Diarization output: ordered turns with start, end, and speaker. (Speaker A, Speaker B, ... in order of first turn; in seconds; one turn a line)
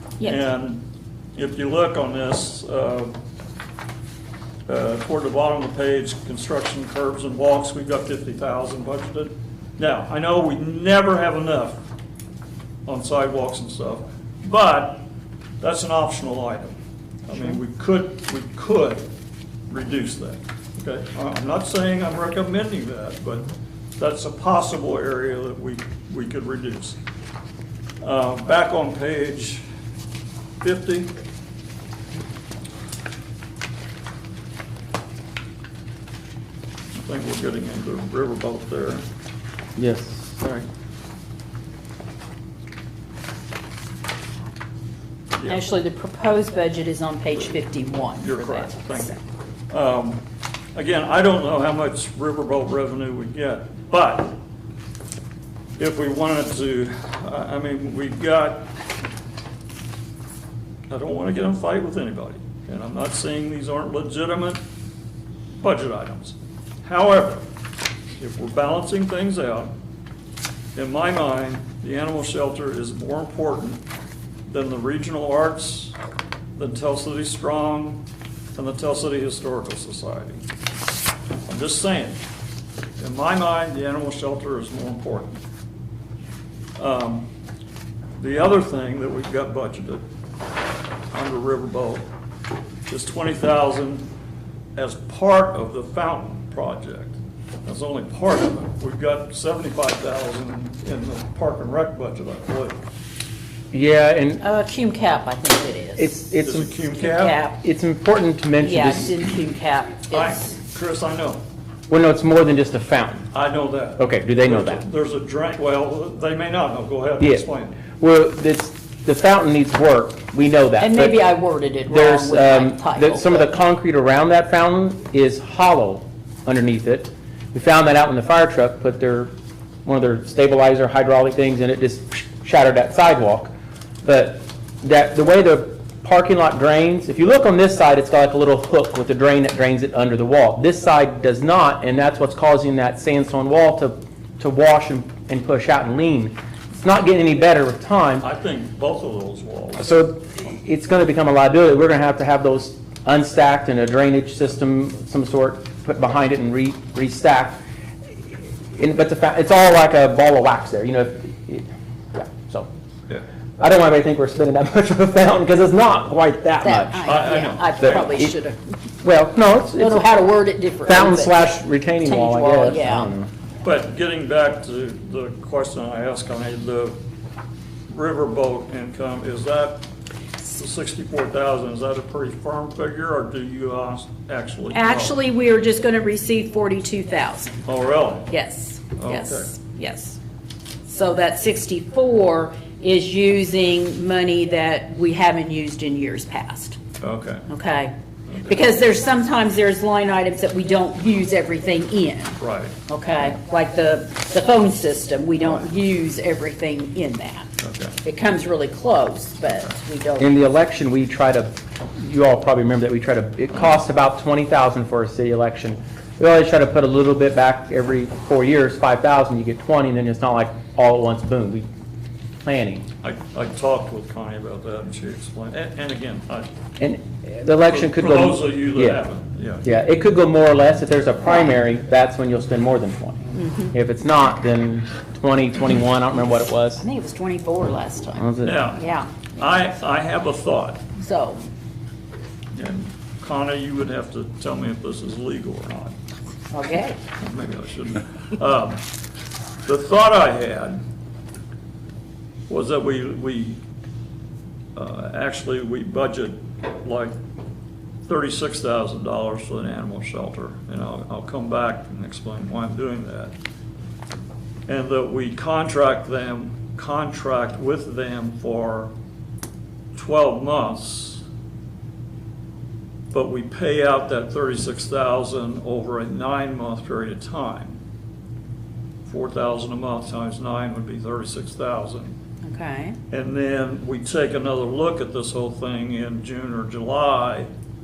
Speaker A: 0.2-0.5
Speaker B: 0.2-0.8
Speaker B: 1.4-3.1
Speaker B: 4.7-11.8
Speaker B: 12.9-15.1
Speaker B: 15.6-16.8
Speaker B: 17.3-19.1
Speaker A: 17.3-17.6
Speaker B: 19.7-27.0
Speaker B: 28.0-29.6
Speaker B: 30.6-31.1
Speaker B: 37.0-39.1
Speaker C: 39.8-40.4
Speaker B: 40.4-40.7
Speaker B: 45.4-45.6
Speaker A: 45.5-49.2
Speaker B: 48.1-49.1
Speaker B: 49.7-50.2
Speaker B: 50.8-54.4
Speaker B: 55.8-58.7
Speaker B: 60.9-64.6
Speaker B: 65.6-67.4
Speaker B: 68.2-69.7
Speaker B: 70.8-73.8
Speaker B: 74.5-76.0
Speaker B: 76.6-78.0
Speaker B: 78.5-80.4
Speaker B: 81.5-82.2
Speaker B: 83.0-85.4
Speaker B: 86.8-87.3
Speaker B: 88.2-90.0
Speaker B: 91.1-92.1
Speaker B: 92.9-94.1
Speaker B: 94.8-102.8
Speaker C: 103.7-104.4
Speaker A: 104.4-106.2
Speaker C: 106.0-106.9
Speaker B: 106.4-107.4
Speaker A: 107.0-107.6
Speaker C: 107.6-109.2
Speaker A: 108.6-110.5
Speaker B: 110.1-111.4
Speaker C: 111.9-113.3
Speaker B: 113.3-117.8
Speaker C: 114.0-114.8
Speaker C: 117.2-121.2
Speaker A: 120.8-123.5
Speaker C: 121.9-129.3
Speaker C: 129.8-133.5
Speaker C: 134.0-148.3
Speaker B: 148.2-149.9
Speaker C: 149.8-157.6
Speaker C: 158.7-162.7
Speaker C: 163.6-168.3
Speaker A: 166.6-168.6
Speaker B: 167.1-168.1
Speaker C: 169.0-170.2
Speaker A: 169.7-171.5
Speaker C: 170.8-173.3
Speaker A: 172.0-173.1
Speaker B: 173.6-177.0
Speaker B: 177.9-179.8
Speaker B: 180.5-185.2
Speaker A: 184.7-187.6
Speaker B: 187.7-188.3
Speaker A: 188.3-190.2
Speaker B: 189.0-189.5
Speaker A: 190.9-196.8
Speaker B: 197.0-197.5
Speaker A: 197.5-197.9
Speaker B: 198.3-198.7
Speaker A: 198.5-207.5
Speaker B: 202.4-202.8
Speaker B: 207.6-208.0
Speaker A: 208.0-210.4
Speaker B: 209.5-209.8
Speaker C: 210.2-221.7
Speaker C: 222.4-222.9
Speaker B: 223.0-226.5
Speaker C: 226.8-229.0
Speaker B: 227.6-229.7
Speaker C: 229.6-236.8
Speaker A: 233.3-233.7
Speaker A: 236.8-239.3
Speaker C: 238.2-238.7
Speaker B: 238.4-238.8
Speaker B: 239.4-240.8
Speaker A: 241.0-241.4
Speaker B: 242.5-246.0
Speaker A: 246.5-247.0
Speaker B: 247.2-248.8
Speaker B: 249.7-250.8
Speaker B: 252.5-253.6
Speaker B: 254.8-257.1
Speaker B: 258.1-263.4
Speaker B: 264.7-268.9
Speaker B: 269.9-271.2
Speaker B: 273.1-277.8
Speaker B: 279.1-282.1
Speaker A: 282.4-283.0
Speaker B: 283.1-287.5